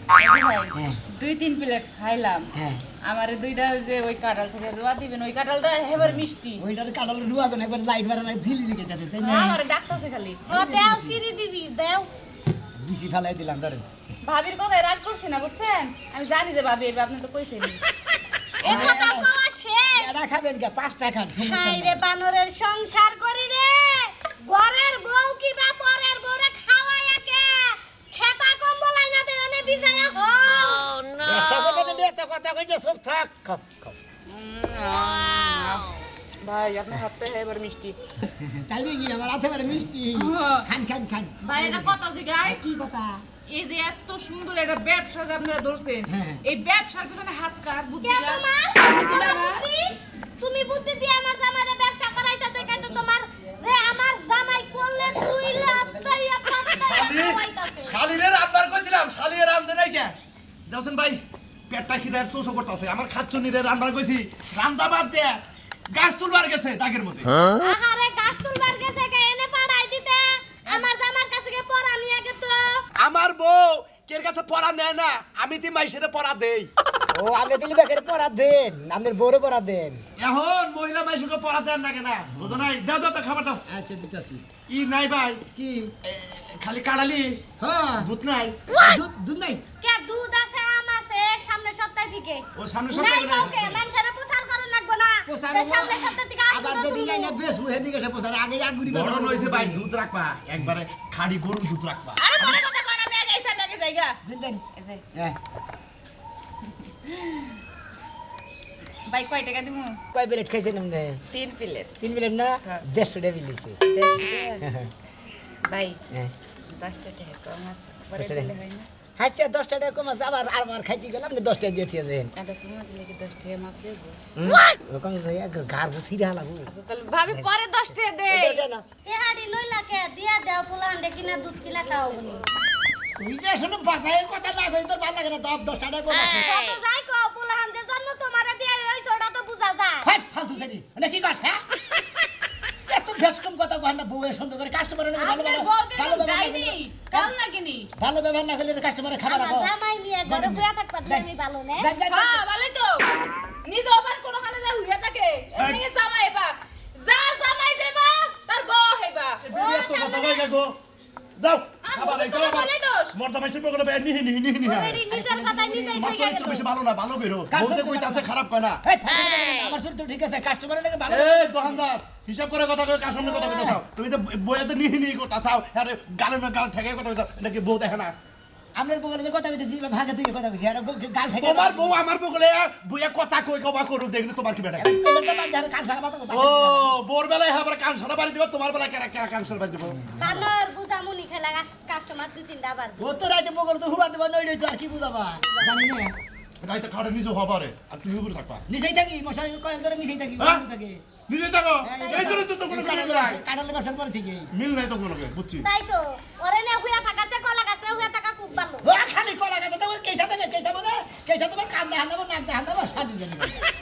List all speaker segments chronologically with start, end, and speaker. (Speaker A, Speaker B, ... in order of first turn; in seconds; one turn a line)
Speaker A: 0.1-2.5
Speaker B: 2.5-2.8
Speaker A: 3.0-6.6
Speaker B: 6.0-9.6
Speaker A: 9.2-10.4
Speaker B: 10.4-11.2
Speaker C: 10.5-12.1
Speaker B: 12.8-13.8
Speaker A: 14.2-17.8
Speaker C: 18.6-20.1
Speaker B: 18.6-19.3
Speaker B: 19.9-22.0
Speaker C: 21.4-30.9
Speaker B: 31.2-34.0
Speaker A: 34.3-38.0
Speaker B: 38.4-43.2
Speaker A: 40.1-40.7
Speaker A: 41.4-42.6
Speaker A: 43.5-49.6
Speaker B: 46.1-46.4
Speaker C: 48.0-58.0
Speaker B: 55.4-55.9
Speaker D: 56.9-60.1
Speaker D: 60.7-65.4
Speaker D: 65.9-67.3
Speaker C: 67.6-72.8
Speaker D: 73.0-76.7
Speaker B: 77.1-80.0
Speaker D: 80.2-83.6
Speaker B: 83.7-84.4
Speaker D: 84.7-85.4
Speaker B: 85.5-85.9
Speaker D: 86.0-87.4
Speaker B: 87.6-88.1
Speaker D: 88.0-88.6
Speaker B: 88.7-89.6
Speaker C: 89.8-97.4
Speaker D: 92.6-93.4
Speaker B: 93.4-93.8
Speaker B: 95.3-99.8
Speaker D: 98.9-102.2
Speaker A: 102.2-104.2
Speaker B: 104.2-104.6
Speaker A: 104.7-105.0
Speaker A: 107.1-107.4
Speaker A: 109.1-110.0
Speaker B: 110.1-111.2
Speaker A: 111.3-112.0
Speaker B: 112.0-113.8
Speaker A: 113.8-114.6
Speaker B: 114.6-114.9
Speaker A: 115.7-116.0
Speaker A: 116.7-118.9
Speaker B: 118.1-118.5
Speaker B: 119.2-122.3
Speaker A: 122.3-124.2
Speaker B: 124.3-126.7
Speaker A: 126.7-128.6
Speaker B: 128.3-128.8
Speaker C: 129.0-132.4
Speaker B: 133.2-136.5
Speaker C: 136.4-140.1
Speaker B: 140.0-141.6
Speaker B: 142.9-147.3
Speaker A: 145.1-147.9
Speaker B: 147.9-149.7
Speaker C: 149.2-151.9
Speaker B: 150.2-152.4
Speaker A: 152.1-153.1
Speaker A: 153.6-159.4
Speaker D: 155.5-155.8
Speaker D: 159.4-160.8
Speaker C: 159.5-160.4
Speaker D: 161.4-165.1
Speaker A: 161.8-163.1
Speaker C: 164.8-165.1
Speaker B: 165.0-166.1
Speaker A: 165.1-165.5
Speaker D: 165.9-168.8
Speaker B: 167.5-168.3
Speaker B: 168.8-171.8
Speaker D: 171.1-178.1
Speaker B: 173.2-173.8
Speaker B: 178.8-182.0
Speaker D: 181.4-184.9
Speaker B: 184.8-186.9
Speaker D: 186.3-190.1
Speaker C: 190.2-193.1
Speaker B: 193.0-196.1
Speaker D: 196.6-198.6
Speaker B: 198.7-201.0
Speaker D: 200.4-200.6
Speaker D: 201.3-203.4
Speaker B: 201.8-204.5
Speaker C: 202.0-202.5
Speaker D: 204.5-205.7
Speaker C: 205.6-209.0
Speaker B: 208.8-213.6